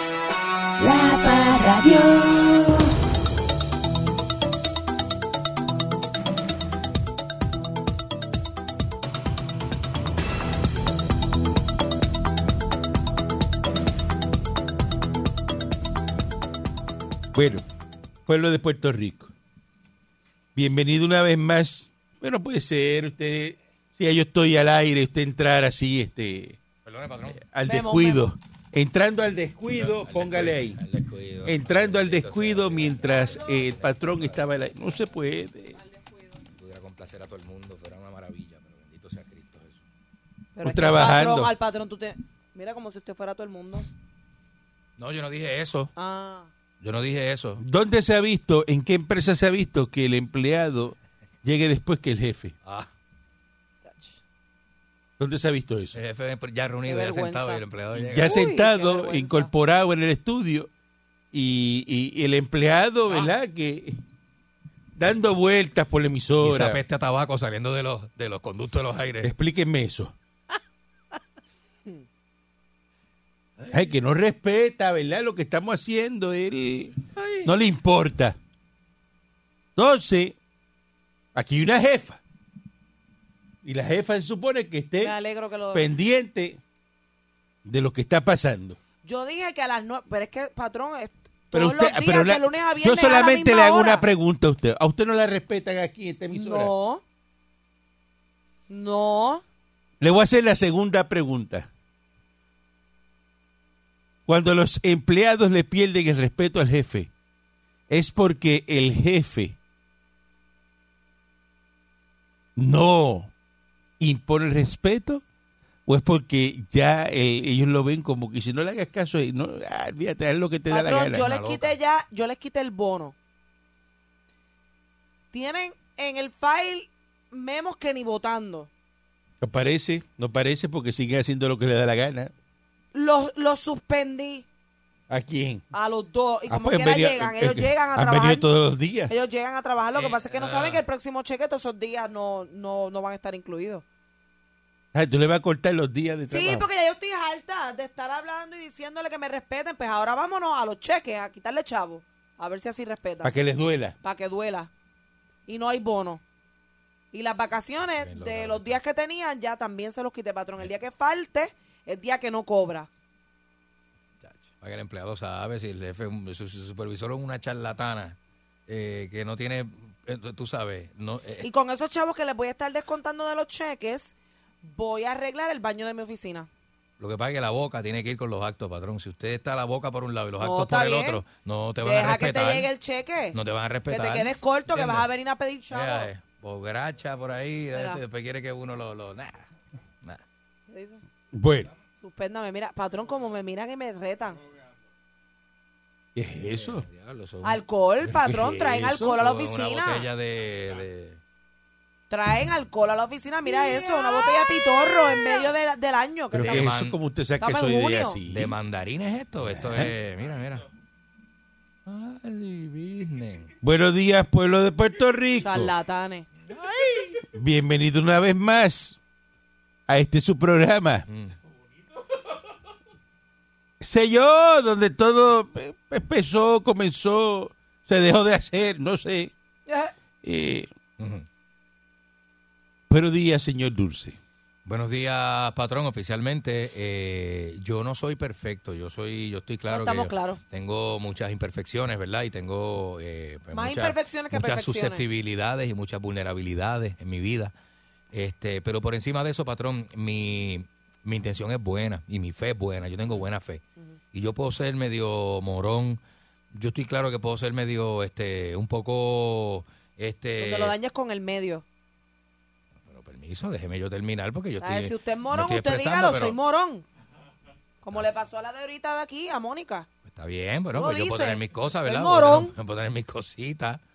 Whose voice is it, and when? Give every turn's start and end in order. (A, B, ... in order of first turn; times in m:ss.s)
0:00.8-0:02.9 A
0:17.3-0:17.6 B
0:18.3-0:19.3 B
0:20.6-0:26.6 B
0:26.8-0:27.4 C
0:27.3-0:30.8 B
0:27.7-0:28.2 D
0:29.7-0:35.0 C
0:31.4-0:35.8 B
0:35.8-0:36.2 D
0:36.6-0:39.8 C
0:40.6-0:43.9 D
0:40.6-0:41.5 B
0:45.0-0:45.9 C
0:46.0-0:46.5 D
0:46.8-0:47.6 C
0:47.6-0:52.6 B
0:53.8-0:54.2 D
0:55.2-0:56.0 B
0:55.9-0:58.3 C
0:56.9-0:57.6 D
0:57.9-1:00.7 B
0:58.2-0:59.5 D
1:01.3-1:04.0 B
1:05.0-1:06.8 B
1:06.4-1:09.3 C
1:09.2-1:10.2 B
1:13.6-1:13.9 C
1:13.7-1:18.4 B
1:17.2-1:17.5 C
1:19.8-1:20.4 B
1:21.4-1:22.2 B
1:23.6-1:25.2 B
1:25.0-1:25.9 D
1:25.7-1:26.6 B
1:27.6-1:28.8 B
1:29.0-1:34.1 D
1:31.5-1:36.7 B
1:36.4-1:37.0 D
1:38.7-1:39.4 D
1:40.0-1:41.7 B
1:44.3-1:47.1 B
1:47.9-1:49.6 B
1:52.6-1:53.3 B
1:54.0-1:55.2 B
1:55.9-2:01.3 B
2:00.7-2:03.2 D
2:01.1-2:01.8 C
2:05.3-2:08.7 D
2:09.4-2:12.3 B
2:12.9-2:14.5 D
2:15.1-2:15.7 B
2:15.7-2:18.5 D
2:16.5-2:19.2 B
2:19.1-2:23.8 D
2:20.0-2:20.8 C
2:24.9-2:26.7 B
2:26.3-2:33.4 D
2:33.2-2:34.0 B
2:34.0-2:34.7 D
2:35.5-2:36.2 D
2:37.1-2:42.9 D
2:38.0-2:38.8 C
2:44.2-2:51.5 C
2:51.4-2:56.5 D
2:57.0-3:02.7 C
3:00.4-3:01.2 D
3:01.8-3:03.4 D
3:03.3-3:05.1 C
3:03.9-3:06.1 D
3:05.7-3:09.5 C
3:07.7-3:08.0 D
3:10.7-3:11.0 D
3:11.3-3:11.7 B
3:12.0-3:14.4 D
3:16.2-3:16.9 B
3:16.4-3:17.6 C
3:17.4-3:20.1 D
3:18.0-3:19.1 B
3:18.8-3:21.2 C
3:22.1-3:26.7 D
3:26.3-3:28.6 B
3:26.4-3:27.0 C
3:27.4-3:28.2 D
3:28.3-3:30.6 C
3:29.4-3:29.9 B
3:31.9-3:33.5 C
3:33.6-3:35.7 B
3:35.4-3:36.3 D
3:36.5-3:37.2 C
3:37.4-3:39.0 B
3:39.9-3:41.0 B
3:41.1-3:41.4 C
3:43.8-3:49.3 B
3:49.7-3:49.9 D
3:50.2-3:50.7 B
3:51.0-3:51.3 C
3:52.9-3:54.2 B
3:54.7-4:07.5 C
3:59.7-4:00.4 D
4:03.5-4:05.0 D
4:08.1-4:13.6 C
4:14.1-4:16.0 C
4:16.5-4:20.8 C
4:20.4-4:21.6 D
4:22.9-4:26.4 C
4:24.6-4:26.8 D
4:27.8-4:29.9 D
4:30.1-4:33.8 C
4:30.7-4:32.5 D